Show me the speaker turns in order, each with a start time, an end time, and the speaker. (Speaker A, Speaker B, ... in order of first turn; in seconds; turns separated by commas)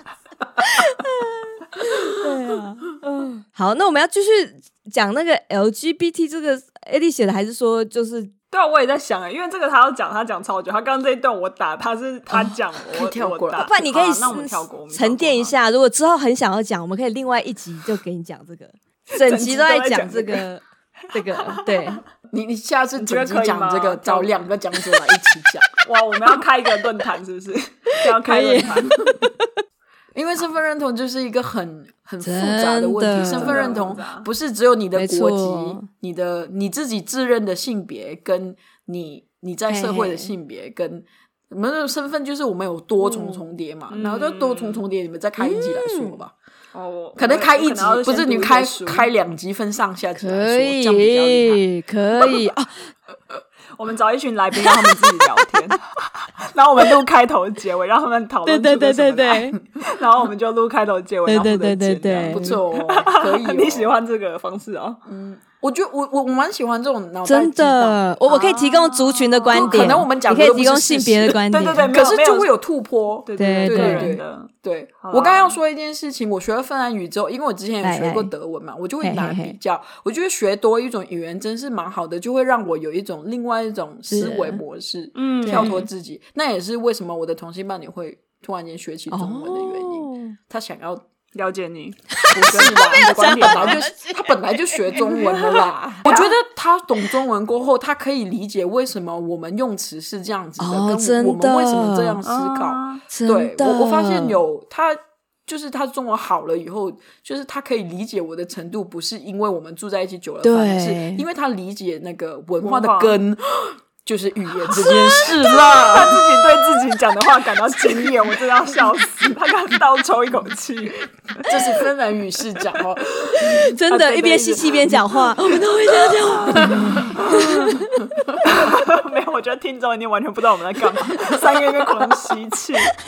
Speaker A: 0.6-8.3, Speaker B: 8.5-15.6, Speaker C: 12.9-13.7, Speaker A: 13.6-22.0, Speaker B: 19.1-20.4, Speaker B: 21.4-21.8, Speaker C: 22.3-25.7, Speaker B: 23.0-24.3, Speaker B: 25.8-29.0, Speaker A: 28.1-29.5, Speaker C: 30.1-46.3, Speaker A: 32.2-33.8, Speaker B: 33.1-34.3, Speaker A: 34.9-35.9, Speaker A: 39.7-40.3, Speaker A: 43.0-43.4, Speaker B: 43.9-44.8, Speaker A: 45.4-46.2, Speaker B: 46.7-49.1, Speaker C: 47.1-51.6, Speaker A: 50.2-52.9, Speaker B: 53.8-65.0, Speaker A: 58.5-59.6, Speaker A: 61.3-62.5, Speaker C: 62.3-63.9, Speaker C: 65.1-68.4, Speaker A: 67.2-71.9, Speaker B: 68.4-70.0, Speaker C: 69.5-91.0, Speaker B: 71.5-72.5, Speaker B: 73.2-75.6, Speaker A: 73.4-74.2, Speaker A: 77.8-78.3, Speaker A: 79.0-79.5, Speaker A: 84.1-84.6, Speaker B: 85.1-85.9, Speaker A: 85.4-85.8, Speaker A: 89.1-90.4, Speaker B: 91.3-93.8, Speaker A: 92.2-94.3, Speaker C: 92.3-116.2, Speaker A: 94.9-95.6, Speaker B: 95.4-96.3, Speaker A: 100.6-102.2, Speaker B: 102.2-103.0, Speaker A: 103.1-104.4, Speaker A: 110.4-111.2, Speaker B: 112.6-113.2, Speaker B: 114.8-121.8, Speaker C: 117.9-118.1, Speaker C: 121.5-123.5, Speaker B: 123.3-127.7, Speaker A: 123.4-128.3, Speaker C: 126.5-128.4, Speaker B: 128.4-132.9, Speaker C: 131.6-132.4